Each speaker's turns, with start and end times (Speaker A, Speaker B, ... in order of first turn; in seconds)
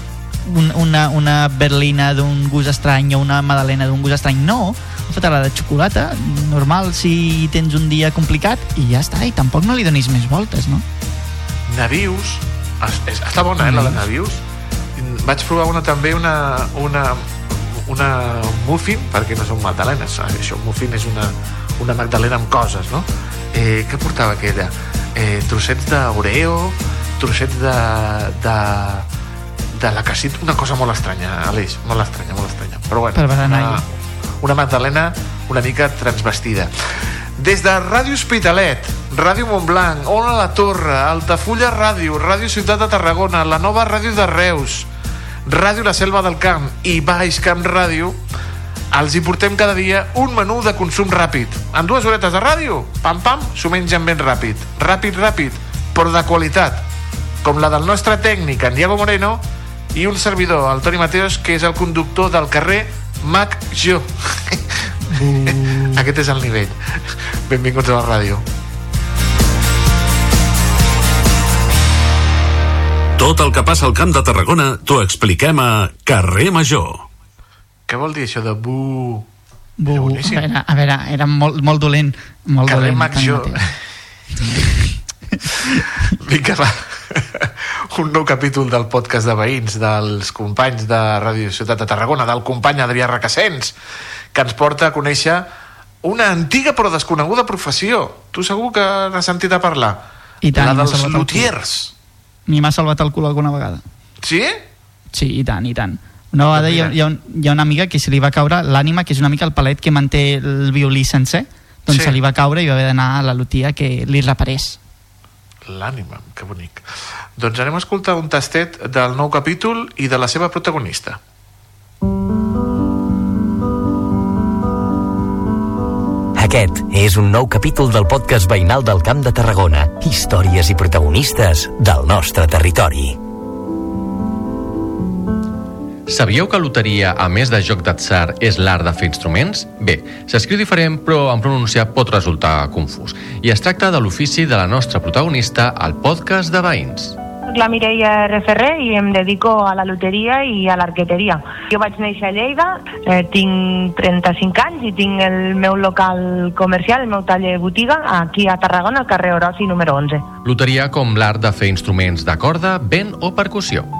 Speaker A: 0.4-10.8, 13.6-14.0, 33.1-33.8, 79.8-83.7, 84.4-84.7, 100.4-101.6, 102.5-103.8, 105.1-114.8
Speaker B: 11.7-14.4, 14.9-29.1, 29.7-33.8, 34.4-36.7, 37.4-44.9, 45.5-48.2, 48.9-56.8, 57.4-64.6, 65.3-68.4, 77.9-79.3, 79.9-80.4, 82.6-83.7, 86.2-93.7, 94.3-95.5, 96.0-101.9, 104.2-104.6, 106.5-106.9, 111.9-112.2, 115.7-121.2
Speaker C: 73.2-77.0
Speaker D: 126.3-133.2
Speaker E: 136.1-147.2, 160.4-163.9
Speaker F: 147.5-160.3